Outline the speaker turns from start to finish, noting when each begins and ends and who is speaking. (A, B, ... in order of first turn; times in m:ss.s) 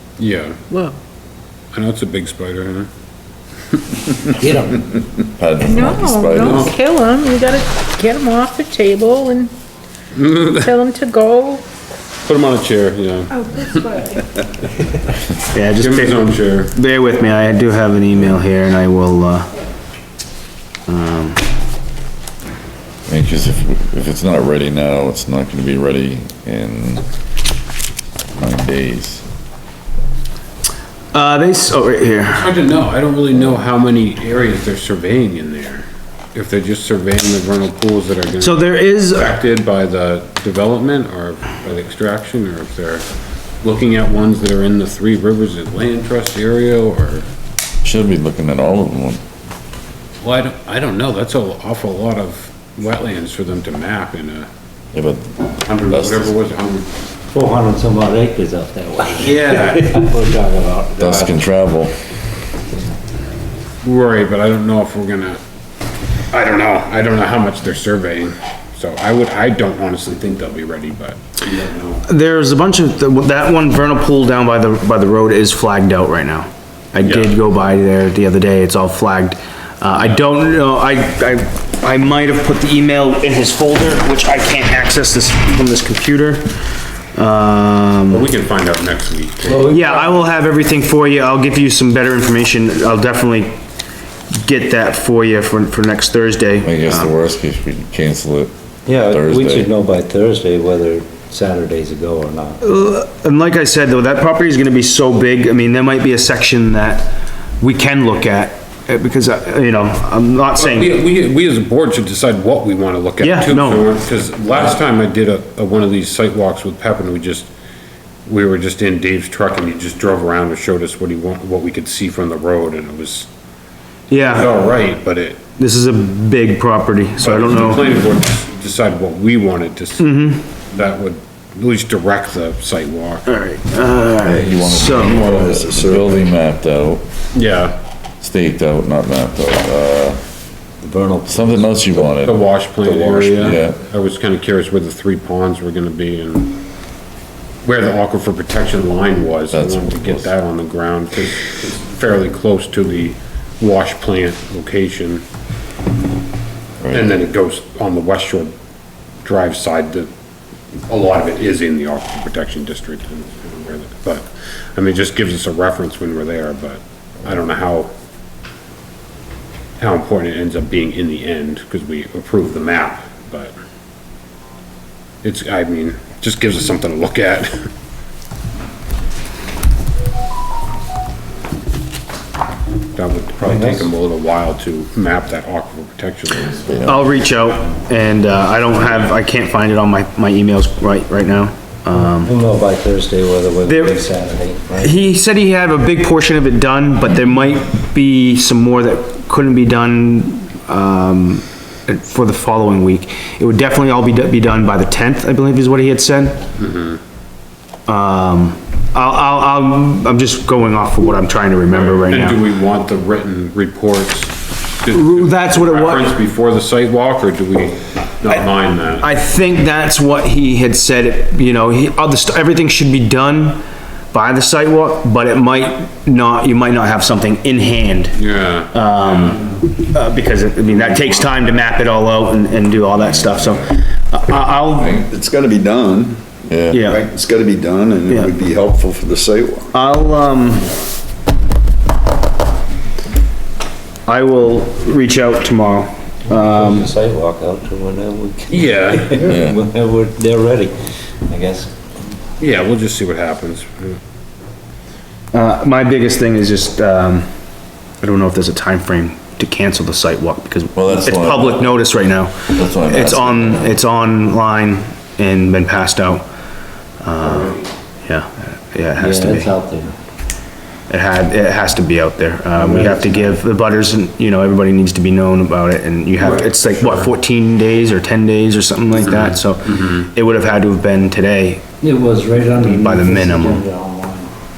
0:00.2-0:00.6 A
0:00.7-0:01.0 B
0:01.7-0:02.9 A
0:03.8-0:04.2 A
0:04.4-0:04.9 C
0:05.3-0:06.7 D
0:05.6-0:09.5 B
0:06.4-0:06.7 A
0:10.2-0:10.7 A
0:10.6-0:11.6 B
0:12.3-0:13.8 A
0:13.4-0:14.2 B
0:15.5-0:19.5 E
0:15.8-0:16.7 A
0:20.9-0:21.4 E
0:23.1-0:27.0 D
0:28.4-0:29.2 D
0:31.1-0:32.5 E
0:32.3-0:43.0 A
0:38.4-0:39.4 E
0:43.6-0:47.3 A
0:47.8-0:49.2 D
0:50.2-0:54.5 A
0:54.9-0:56.3 D
0:55.6-0:56.9 A
0:57.3-1:01.5 C
0:59.2-1:00.0 A
0:59.2-0:59.8 E
1:01.0-1:02.0 D
1:03.8-1:05.4 A
1:06.3-1:12.0 A
1:12.1-1:26.5 E
1:17.0-1:17.4 A
1:27.1-1:28.3 E
1:28.1-1:30.1 A
1:29.5-1:29.8 C
1:29.7-1:33.6 E
1:34.4-1:37.1 E
1:36.6-1:38.5 D
1:38.9-1:42.6 C
1:39.0-1:39.7 D
1:42.6-1:51.0 E
1:50.6-1:57.5 A
1:53.2-1:53.9 E
1:58.3-2:03.3 A
2:04.1-2:04.6 E
2:04.3-2:05.4 A
2:05.6-2:07.9 E
2:07.2-2:10.1 A
2:10.0-2:10.5 E
2:10.7-2:13.3 A
2:13.3-2:15.3 E
2:14.2-2:17.0 D
2:15.0-2:16.2 F
2:17.3-2:17.8 A
2:18.2-2:20.2 D
2:20.8-2:22.2 C
2:21.3-2:22.4 D
2:22.2-2:26.6 A
2:22.8-2:23.6 C
2:23.4-2:23.8 D
2:27.6-2:35.2 A
2:29.5-2:30.3 D
2:36.8-2:37.2 D
2:36.9-2:38.5 A
2:39.2-2:40.1 A
2:40.9-2:47.9 A
2:49.8-2:53.5 A
2:55.2-2:57.7 A
3:03.0-3:06.6 A
3:03.4-3:03.9 C
3:06.5-3:07.0 D
3:06.8-3:12.4 E
3:12.2-3:14.9 C
3:13.7-3:14.0 E
3:14.8-3:26.4 E
3:26.6-3:27.0 A
3:27.9-3:32.4 E
3:31.7-3:39.1 A
3:34.9-3:36.1 E
3:39.0-3:48.2 E
3:48.2-3:49.5 A
3:48.7-3:55.0 E
3:53.0-3:53.7 D
3:55.0-3:56.2 F
3:56.5-3:56.8 D
3:56.7-3:57.0 E
3:56.8-3:59.7 F
3:59.7-4:00.7 E
4:04.1-4:06.9 E
4:06.3-4:10.8 C
4:08.5-4:09.4 A
4:09.2-4:09.6 D
4:11.3-4:11.7 C
4:12.4-4:14.0 A
4:15.3-4:17.3 E
4:18.0-4:26.2 E
4:20.8-4:21.8 D
4:22.5-4:23.8 D
4:27.0-4:29.5 E
4:27.2-4:27.7 A
4:29.0-4:29.9 C
4:30.9-4:41.6 E
4:32.6-4:33.3 C
4:36.2-4:37.1 A
4:38.9-4:40.1 A
4:41.8-4:44.3 C
4:42.5-4:43.6 E